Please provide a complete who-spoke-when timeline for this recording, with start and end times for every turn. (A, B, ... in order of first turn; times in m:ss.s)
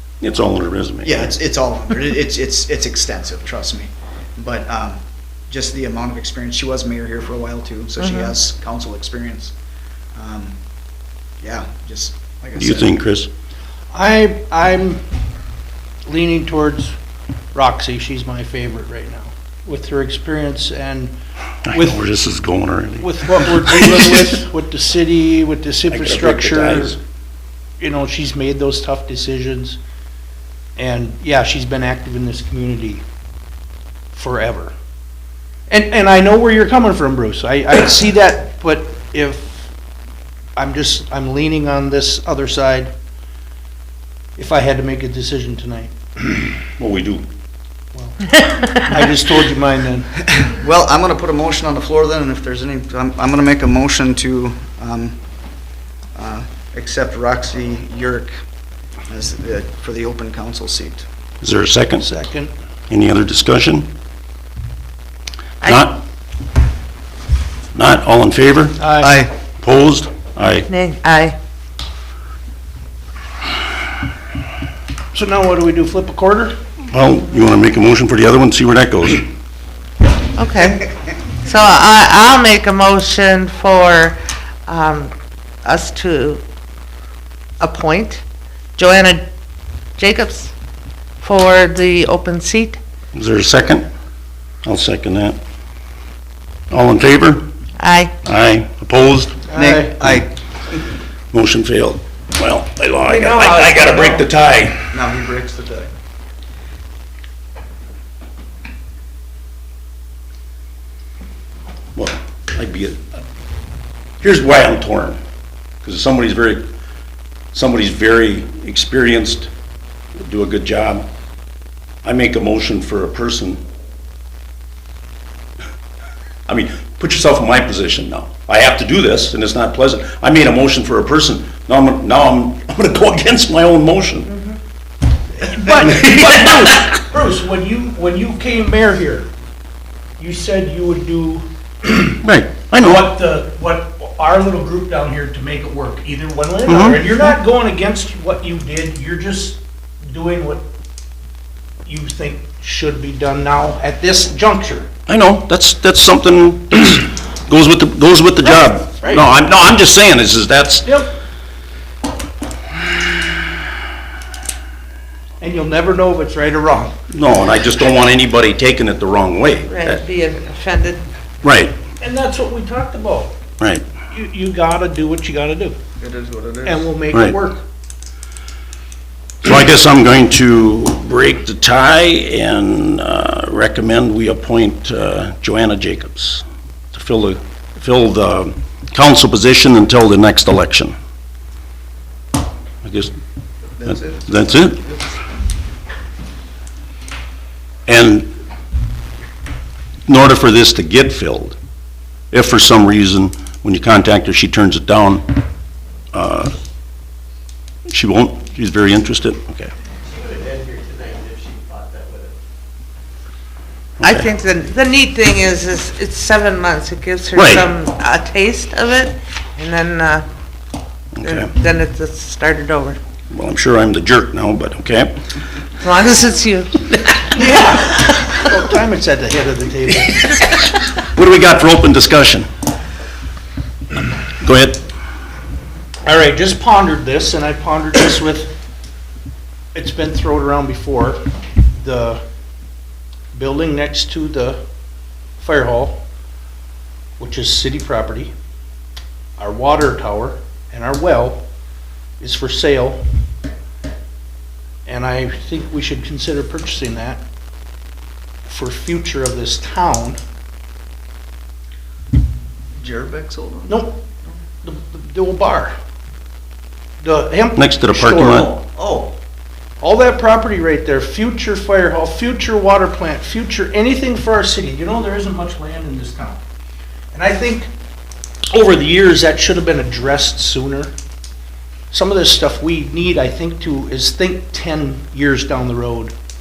0:00.2-0:01.3 A
0:01.0-0:09.5 B
0:10.2-0:10.6 B
0:11.4-0:13.0 B
0:12.6-0:13.3 A
0:13.9-0:15.0 C
0:16.1-0:17.0 C
0:17.5-0:21.1 C
0:21.6-0:24.0 A
0:21.7-0:22.0 C
0:23.0-0:27.0 C
0:25.9-0:27.0 A
0:27.8-0:29.8 C
0:30.8-0:33.0 C
0:34.1-0:34.7 C
0:35.7-0:39.7 C
0:40.6-0:42.9 C
0:44.4-0:45.9 C
0:46.8-0:47.2 A
0:47.9-0:50.1 C
0:50.2-0:55.2 B
0:56.2-0:58.3 B
0:59.1-1:01.0 B
1:01.4-1:02.1 A
1:02.0-1:02.5 C
1:02.9-1:03.9 A
1:05.6-1:06.0 A
1:07.8-1:08.8 A
1:08.8-1:09.1 C
1:09.0-1:09.3 B
1:09.6-1:10.7 A
1:10.7-1:11.4 D
1:15.1-1:16.6 C
1:16.9-1:19.3 A
1:20.4-1:25.1 D
1:25.6-1:26.4 D
1:27.6-1:28.2 D
1:28.8-1:29.2 D
1:30.0-1:30.5 D
1:31.2-1:32.8 D
1:33.1-1:33.9 A
1:34.6-1:35.4 A
1:36.7-1:37.4 A
1:37.8-1:38.1 D
1:38.2-1:39.4 A
1:39.5-1:39.9 C
1:39.5-1:40.3 B
1:41.3-1:44.9 A
1:43.0-1:44.2 D
1:44.9-1:45.9 B
1:52.0-1:53.0 A
1:54.2-1:55.2 A
1:55.8-1:56.6 A
1:57.5-1:59.5 A
2:00.2-2:01.1 A
2:02.0-2:03.6 A
2:06.5-2:14.3 A
2:14.3-2:14.6 D
2:15.4-2:19.3 C
2:15.8-2:16.9 A
2:20.2-2:22.2 C
2:22.2-2:23.1 A
2:22.8-2:30.6 C
2:26.7-2:27.3 A
2:31.8-2:34.9 C
2:35.1-2:40.9 A
2:38.4-2:39.3 C
2:40.8-2:41.1 C
2:45.4-2:46.9 C
2:47.1-2:50.0 A
2:49.7-2:51.0 D
2:51.4-2:51.8 A
2:52.0-2:53.4 C
2:54.1-2:55.8 C
2:56.0-2:56.9 B
2:56.6-2:57.6 C
2:59.4-3:10.9 A
3:12.8-3:13.1 A
3:13.8-3:15.0 B
3:14.3-3:14.8 A
3:17.9-3:18.3 A
3:20.1-3:21.6 A
3:22.3-3:25.4 A
3:26.1-3:26.6 A
3:27.9-3:29.7 A
3:34.0-3:34.3 A
3:34.0-3:40.3 D
3:37.4-3:37.7 A
3:41.2-3:41.5 A
3:41.2-3:43.0 D
3:43.3-3:45.2 A
3:45.8-3:47.4 D
3:47.3-3:50.3 C
3:50.3-3:52.5 A
3:54.4-3:54.8 A
3:56.1-3:58.5 C
3:59.8-4:01.2 C
4:01.7-4:02.2 C
4:03.3-4:04.6 C
4:05.4-4:06.0 C
4:07.2-4:08.3 C
4:09.4-4:11.4 C
4:12.2-4:13.0 C
4:14.9-4:17.2 C
4:18.5-4:20.2 C
4:22.8-4:23.8 B
4:23.7-4:24.0 C
4:24.6-4:25.8 C
4:27.0-4:28.5 C
4:27.6-4:28.5 A
4:28.3-4:29.1 B
4:29.8-4:36.4 C
4:37.1-4:37.7 C
4:38.5-4:40.9 C
4:41.9-4:46.1 C